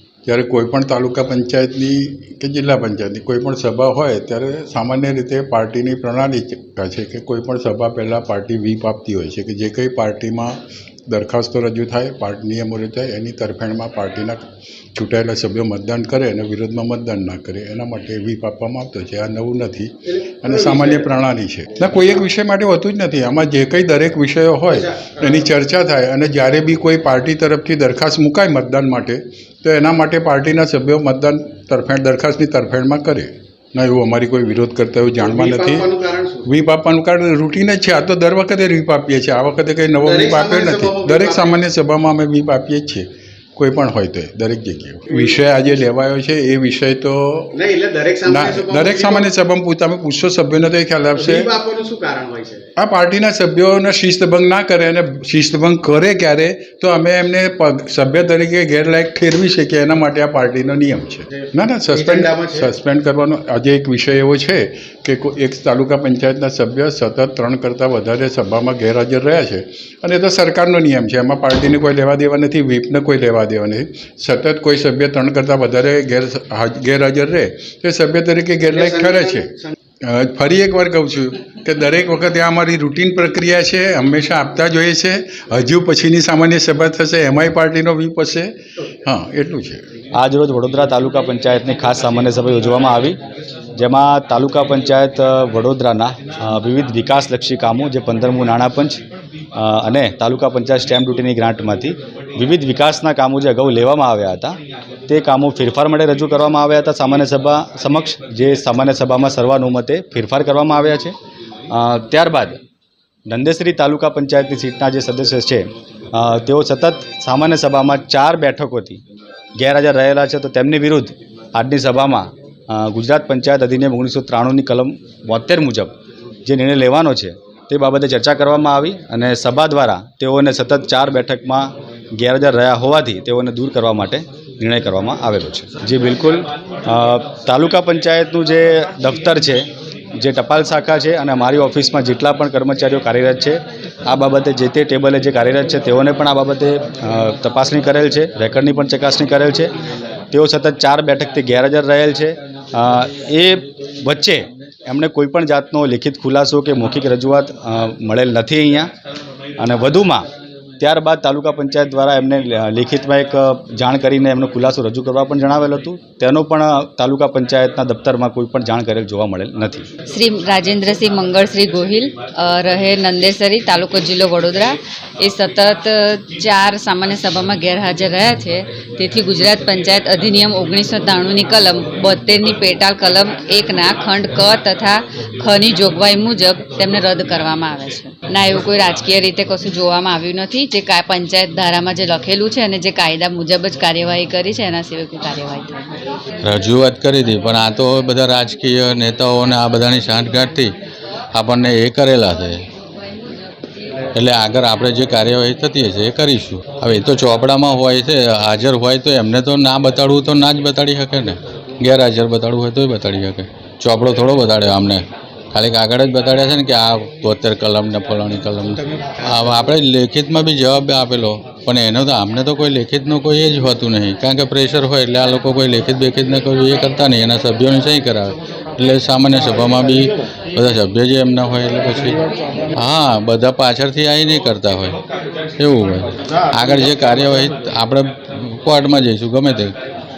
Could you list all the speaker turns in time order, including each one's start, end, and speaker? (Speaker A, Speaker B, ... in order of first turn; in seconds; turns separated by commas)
Speaker A: 0.3-14.4, Speaker A: 14.9-35.9, Speaker B: 20.2-21.1, Speaker B: 24.7-25.4, Speaker B: 35.2-36.5, Speaker A: 36.5-47.5, Speaker B: 40.0-41.6, Speaker B: 45.1-45.8, Speaker B: 47.5-49.3, Speaker A: 48.3-51.5, Speaker B: 51.1-52.7, Speaker A: 52.8-79.5, Speaker B: 61.9-62.7, Speaker B: 78.7-79.7, Speaker A: 80.0-89.8, Speaker C: 90.2-93.2, Speaker C: 93.8-99.0, Speaker C: 99.6-111.2, Speaker C: 111.7-112.6, Speaker C: 113.3-119.0, Speaker C: 119.6-149.7, Speaker C: 150.3-158.9, Speaker C: 159.6-160.3, Speaker C: 160.8-169.8, Speaker D: 170.1-196.0, Speaker E: 196.4-200.7, Speaker E: 201.3-202.6, Speaker E: 204.2-232.2, Speaker E: 232.8-235.0, Speaker E: 235.6-238.1, Speaker E: 238.6-239.7